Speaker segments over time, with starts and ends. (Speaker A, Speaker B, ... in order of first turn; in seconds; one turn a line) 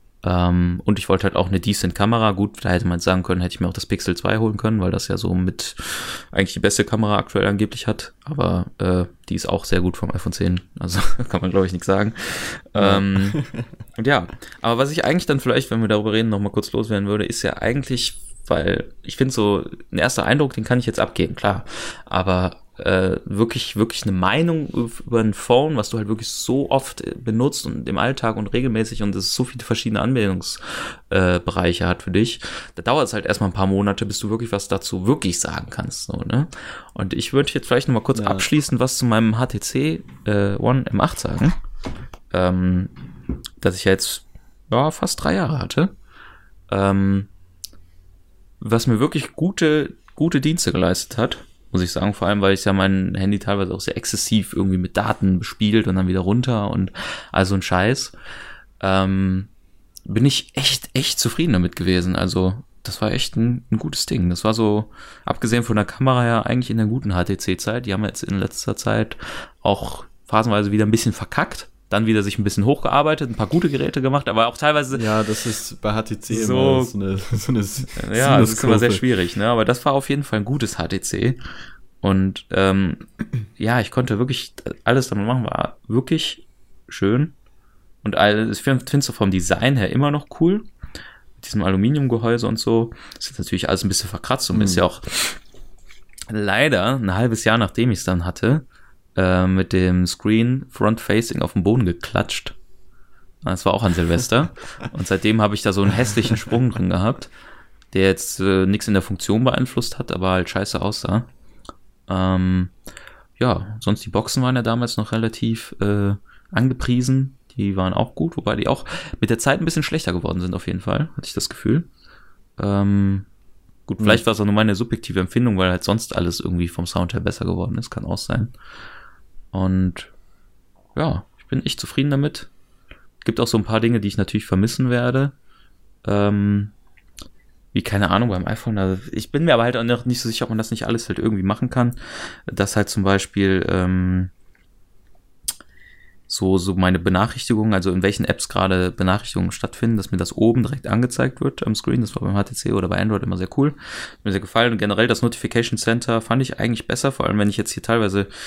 Speaker A: 0.2-13.4
Speaker B: 12.8-13.6
Speaker A: 14.0-41.6
Speaker B: 38.1-38.5
Speaker A: 42.3-42.9
Speaker A: 43.6-45.9
Speaker A: 46.7-47.3
Speaker A: 48.6-58.1
Speaker A: 58.8-59.5
Speaker A: 60.0-75.1
Speaker B: 74.9-79.0
Speaker A: 76.3-76.9
Speaker A: 78.0-81.4
Speaker A: 82.0-87.3
Speaker A: 88.0-90.7
Speaker A: 91.4-95.4
Speaker B: 94.5-94.8
Speaker A: 96.3-98.6
Speaker A: 99.2-102.5
Speaker A: 103.4-107.3
Speaker A: 107.9-111.3
Speaker A: 112.1-112.7
Speaker A: 113.4-121.9
Speaker A: 122.6-123.3
Speaker A: 123.9-128.5
Speaker A: 129.5-130.1
Speaker A: 130.9-132.5
Speaker A: 133.2-135.3
Speaker A: 136.0-136.7
Speaker A: 137.7-144.3
Speaker A: 146.3-158.3